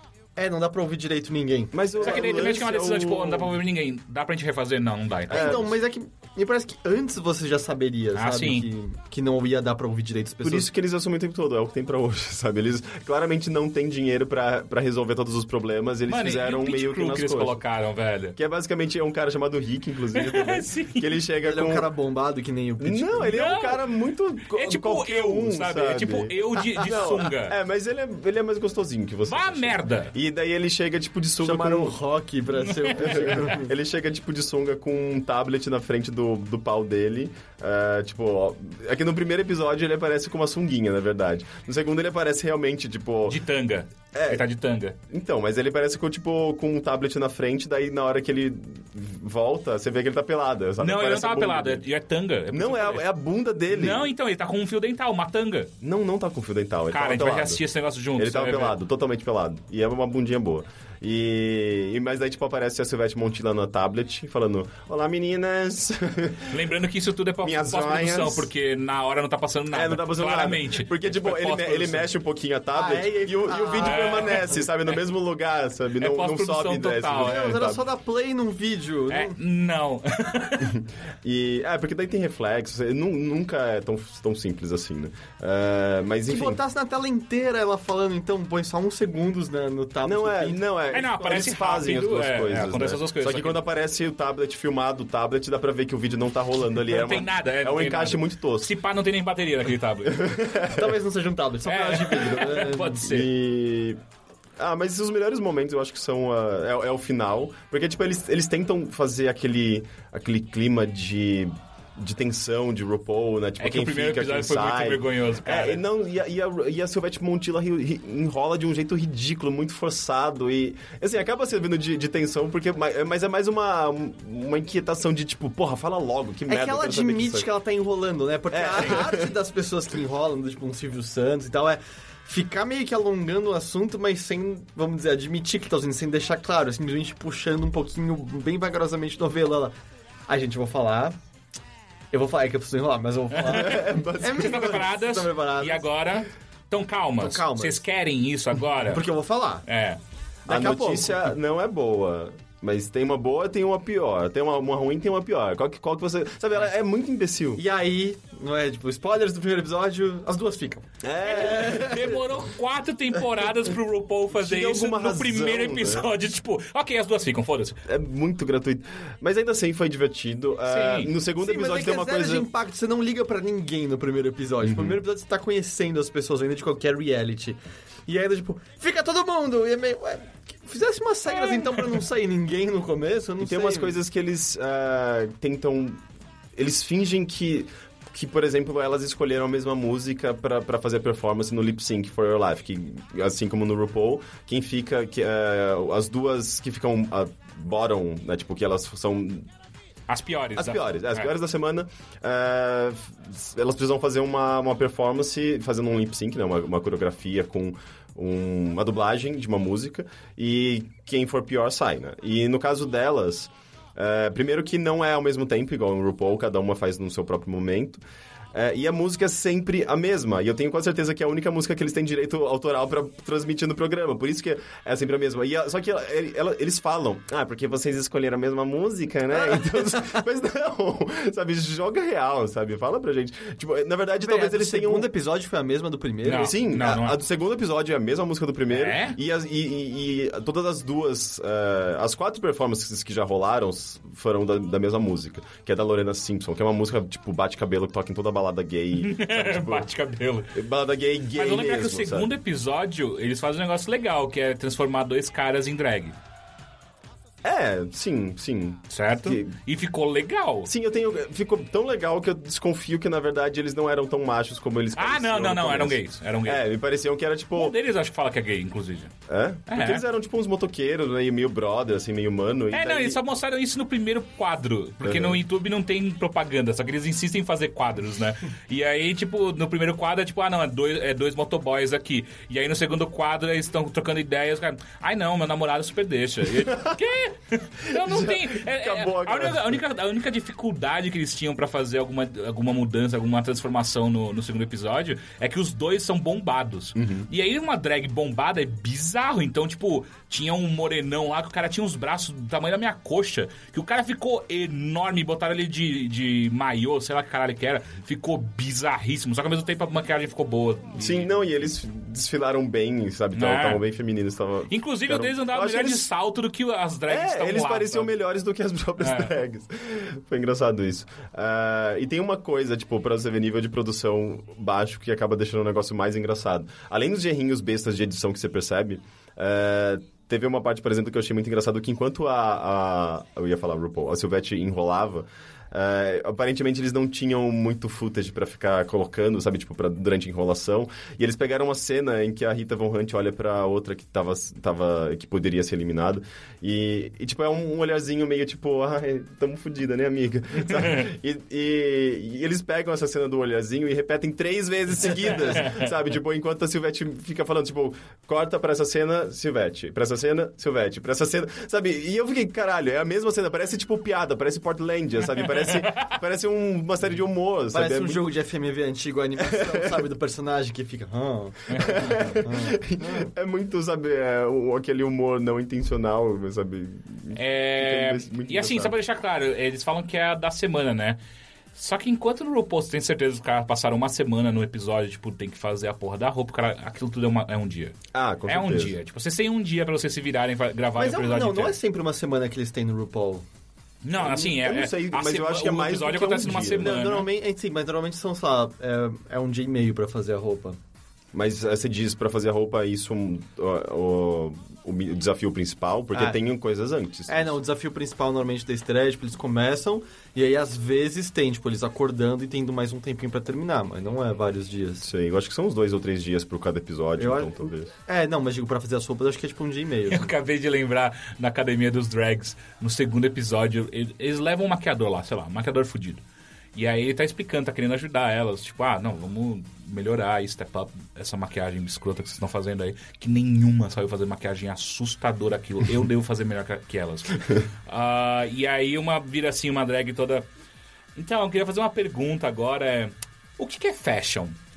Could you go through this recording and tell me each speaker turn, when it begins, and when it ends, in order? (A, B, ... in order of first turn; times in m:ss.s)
0:00.4-0:02.4 A
0:01.7-0:03.6 B
0:02.0-0:05.7 C
0:05.3-0:10.7 A
0:05.3-0:05.7 B
0:08.1-0:08.6 C
0:10.4-0:17.6 B
0:16.1-0:18.4 C
0:18.4-0:21.9 B
0:20.1-0:21.1 C
0:21.4-0:23.4 A
0:22.8-0:32.0 B
0:23.2-0:23.8 C
0:24.5-0:27.6 C
0:26.8-0:27.0 A
0:29.3-0:30.1 C
0:31.4-0:33.7 A
0:32.7-0:33.5 C
0:33.0-0:43.4 B
0:43.3-0:45.0 C
0:44.1-0:44.4 B
0:45.1-0:51.8 B
0:50.8-0:53.0 C
0:52.5-0:54.1 B
0:53.7-0:55.7 C
0:55.8-0:57.6 B
0:56.9-0:58.8 C
0:58.2-1:06.6 B
1:06.5-1:12.0 C
1:07.4-1:08.5 B
1:09.7-1:17.8 B
1:12.7-1:14.6 A
1:13.8-1:14.6 C
1:16.0-1:17.7 C
1:17.2-1:19.4 A
1:19.1-1:20.8 C
1:20.7-1:26.6 B
1:26.3-1:30.6 A
1:30.0-1:38.7 B
1:30.9-1:33.6 C
1:36.8-1:40.2 C
1:40.0-1:40.9 B
1:40.7-1:43.1 A
1:41.6-1:43.3 C
1:43.0-1:44.0 B
1:44.6-2:07.5 B
1:53.6-1:55.8 C
2:06.5-2:19.8 A
2:08.5-2:09.3 B
2:20.3-2:21.2 A
2:22.1-2:25.9 A
2:23.3-2:29.1 C
2:23.5-2:24.8 B
2:27.2-2:27.8 A
2:28.8-2:29.6 A
2:29.6-2:30.0 C
2:30.4-2:31.3 A
2:30.5-2:37.6 B
2:37.6-2:40.9 A
2:41.0-2:42.2 B
2:41.2-2:47.8 C
2:44.3-2:46.1 B
2:47.8-2:52.5 B
2:50.7-2:51.1 C
2:51.4-3:04.0 A
2:54.6-2:55.0 B
3:03.4-3:06.0 B
3:06.6-3:19.5 B
3:20.1-3:21.3 C
3:20.6-3:38.0 B
3:38.5-3:55.1 B
3:49.5-3:50.0 A
3:54.2-3:56.6 A
3:56.2-3:57.2 C
3:56.2-4:09.9 B
3:58.7-3:59.2 C
4:09.0-4:10.5 C
4:10.5-4:12.3 B
4:11.4-4:16.2 C
4:17.4-4:19.5 B
4:18.9-4:20.7 C
4:20.6-4:27.7 B
4:25.0-4:26.6 C
4:27.5-4:29.1 C
4:29.3-4:33.2 B
4:29.7-4:30.0 C
4:32.7-5:11.3 C
4:35.0-4:35.4 B
4:46.7-4:47.0 B
4:47.8-4:49.8 B
4:56.9-4:57.3 B
5:11.0-5:16.1 B
5:13.3-5:13.8 C
5:14.7-5:18.1 C
5:17.1-6:08.3 B
5:19.0-5:19.3 C
5:55.5-5:55.9 C
6:05.7-6:06.1 C
6:07.7-6:13.3 A
6:09.4-6:10.0 B
6:11.7-6:12.4 C
6:11.8-6:18.9 B
6:17.3-6:21.2 C
6:21.7-6:31.8 C
6:28.1-6:29.0 B
6:31.0-6:33.4 A
6:34.0-6:37.3 C
6:34.2-6:37.0 B
6:36.8-6:40.8 A
6:41.3-6:47.6 B
6:47.3-6:55.1 A
6:55.0-6:57.9 B
6:57.2-7:00.3 A
7:00.1-7:06.2 C
7:06.7-7:20.4 C
7:21.2-7:24.6 C